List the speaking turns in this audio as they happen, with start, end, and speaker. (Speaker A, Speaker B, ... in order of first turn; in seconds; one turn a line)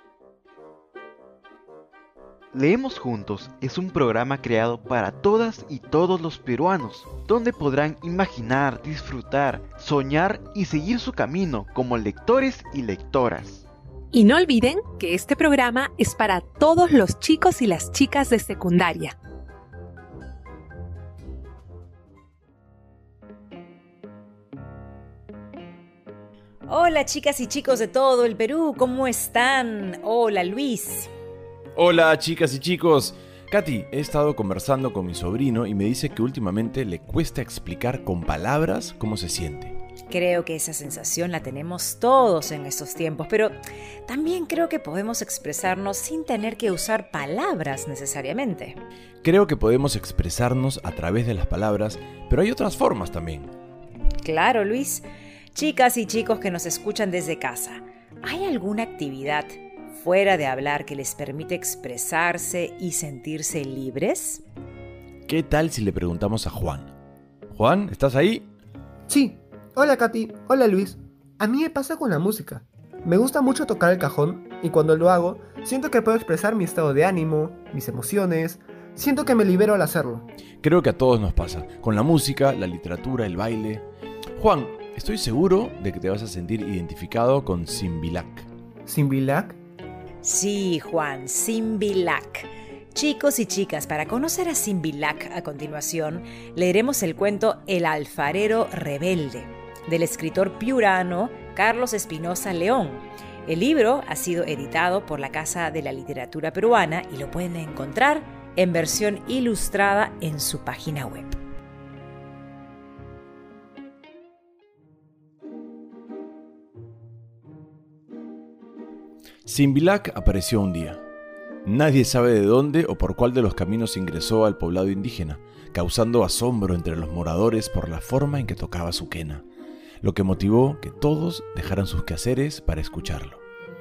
Speaker A: 2.5-13.7
Speaker B: 14.1-19.1
Speaker C: 26.7-31.1
Speaker D: 31.8-39.8
Speaker C: 40.1-43.5
Speaker C: 44.1-48.8
Speaker D: 49.2-53.5
Speaker C: 54.2-64.4
Speaker D: 65.3-66.9
Speaker D: 67.5-68.5
Speaker E: 69.1-80.3
Speaker D: 80.6-83.9
Speaker D: 84.4-88.5
Speaker E: 88.8-89.6
Speaker C: 90.2-111.4
Speaker D: 119.5-121.0
Speaker D: 121.7-129.4
Speaker D: 130.0-133.4